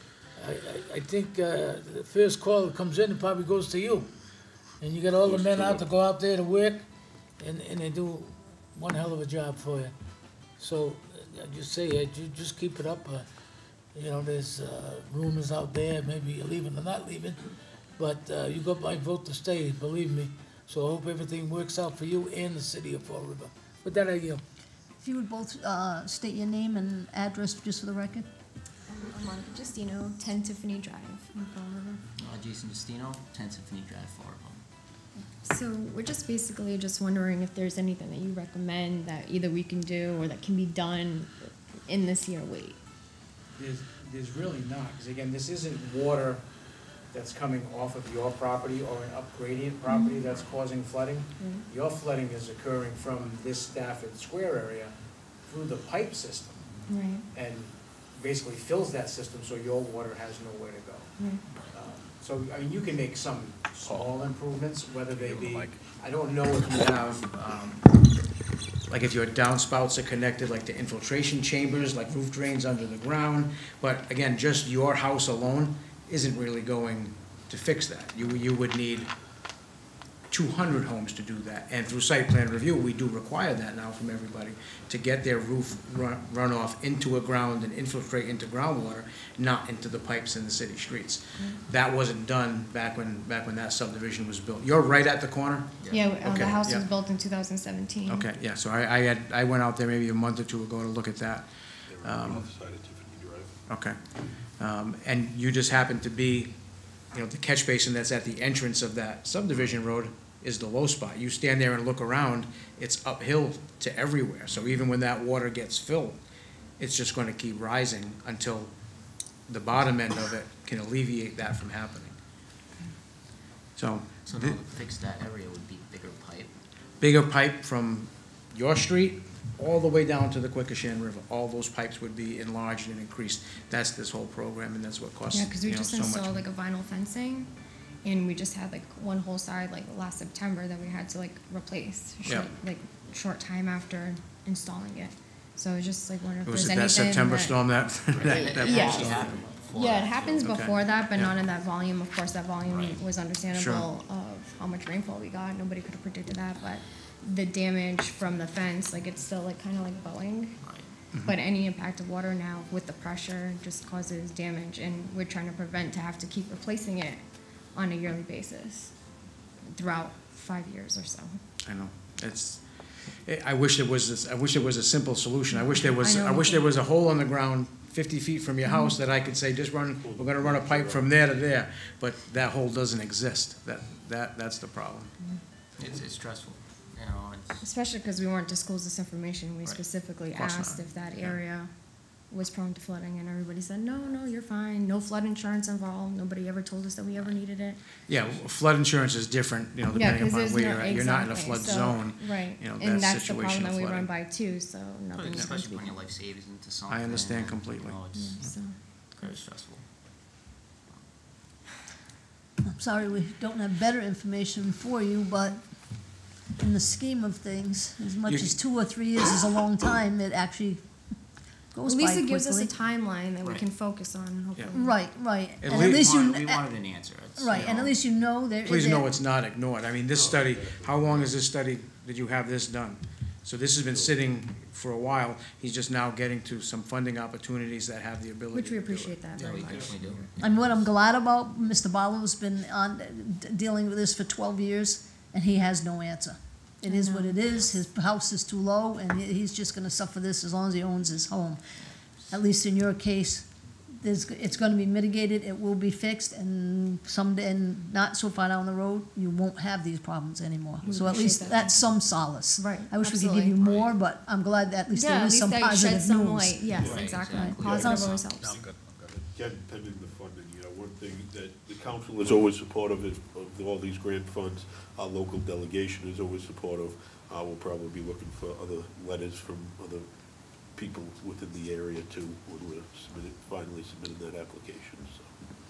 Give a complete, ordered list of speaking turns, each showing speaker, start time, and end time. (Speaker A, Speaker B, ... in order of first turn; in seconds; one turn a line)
Speaker A: 0.3-4.2
Speaker A: 4.8-6.8
Speaker B: 5.2-5.8
Speaker A: 7.4-9.9
Speaker A: 10.6-13.3
Speaker A: 13.9-17.4
Speaker A: 18.0-24.4
Speaker C: 25.0-28.3
Speaker D: 28.9-32.0
Speaker E: 32.1-34.6
Speaker D: 35.4-42.8
Speaker F: 43.6-46.4
Speaker F: 47.1-54.9
Speaker D: 49.9-50.2
Speaker D: 51.4-51.6
Speaker F: 55.5-56.7
Speaker D: 56.9-57.2
Speaker F: 57.3-61.1
Speaker F: 61.7-68.2
Speaker G: 63.9-64.3
Speaker G: 65.1-65.8
Speaker F: 68.9-79.1
Speaker F: 80.3-96.9
Speaker E: 95.8-96.1
Speaker D: 95.9-98.3
Speaker F: 98.1-101.5
Speaker B: 101.9-103.5
Speaker F: 102.0-102.5
Speaker F: 103.7-104.0
Speaker F: 104.6-106.6
Speaker F: 107.1-116.2
Speaker F: 116.8-118.7
Speaker F: 119.5-122.2
Speaker F: 123.8-124.6
Speaker E: 124.2-126.6
Speaker F: 127.0-136.4
Speaker D: 135.3-137.5
Speaker D: 138.0-160.6
Speaker F: 142.2-142.5
Speaker F: 146.4-149.6
Speaker E: 148.1-150.6
Speaker F: 150.4-151.4
Speaker E: 152.6-153.0
Speaker F: 153.5-153.9
Speaker E: 160.6-160.9
Speaker F: 161.1-161.4
Speaker D: 161.2-169.0
Speaker D: 169.6-171.4
Speaker F: 171.7-172.7
Speaker F: 173.2-185.1
Speaker D: 175.5-176.8
Speaker D: 178.7-179.0
Speaker B: 180.6-181.0
Speaker E: 185.8-187.6
Speaker D: 187.6-198.1
Speaker F: 190.3-191.3
Speaker F: 198.1-204.1
Speaker D: 199.9-206.0
Speaker E: 205.1-211.1
Speaker F: 205.3-205.6
Speaker F: 206.9-208.1
Speaker D: 208.1-209.4
Speaker C: 212.7-222.7
Speaker F: 218.3-218.6
Speaker D: 221.8-225.3
Speaker E: 223.4-223.7
Speaker C: 224.7-226.7
Speaker F: 225.6-226.3
Speaker E: 225.7-228.1
Speaker C: 227.3-229.1
Speaker F: 228.6-240.0
Speaker B: 230.1-231.3
Speaker B: 233.9-234.2
Speaker D: 238.5-240.2
Speaker E: 239.3-240.8
Speaker C: 240.4-251.6
Speaker D: 246.8-247.6
Speaker C: 252.3-266.7
Speaker D: 260.8-263.6
Speaker D: 264.9-268.6
Speaker E: 266.7-268.3
Speaker C: 267.2-268.1
Speaker G: 268.4-269.1
Speaker B: 269.1-280.1
Speaker B: 280.7-285.3